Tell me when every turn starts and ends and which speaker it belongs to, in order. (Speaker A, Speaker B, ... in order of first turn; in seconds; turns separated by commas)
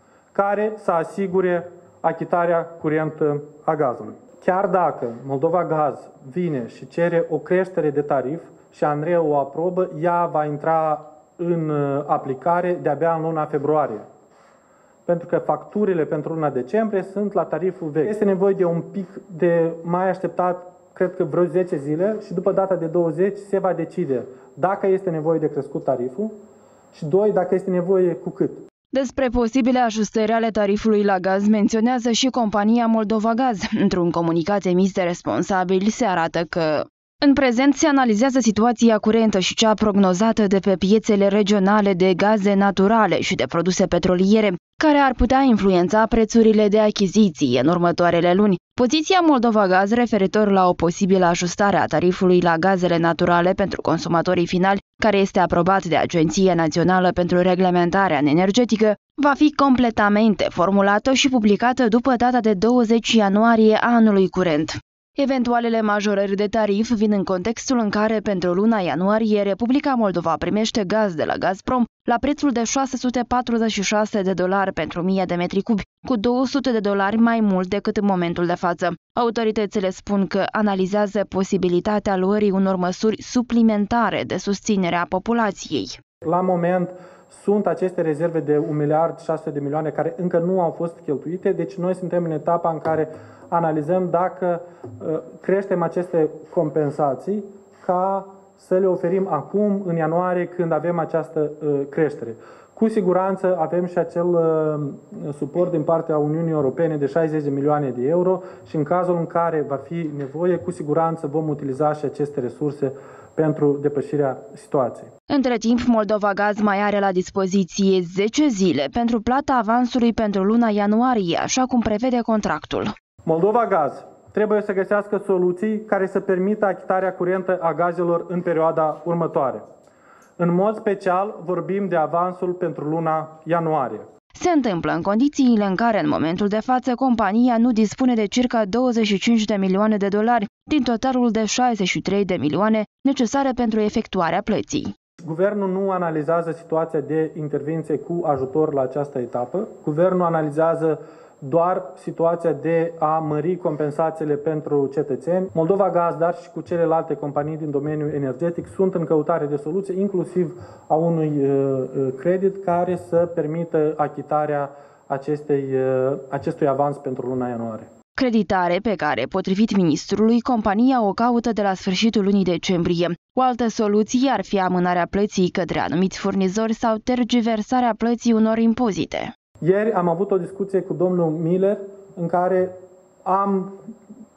Speaker A: 0.3-14.1, Speaker A: 15.1-26.4, Speaker A: 26.9-28.6, Speaker B: 28.9-86.0, Speaker A: 86.2-115.1, Speaker B: 115.3-122.9, Speaker A: 123.3-129.6, Speaker A: 130.4-134.1, Speaker B: 134.3-144.9, Speaker A: 145.2-167.9, Speaker B: 168.2-179.3, Speaker A: 179.6-182.7, Speaker A: 183.2-183.8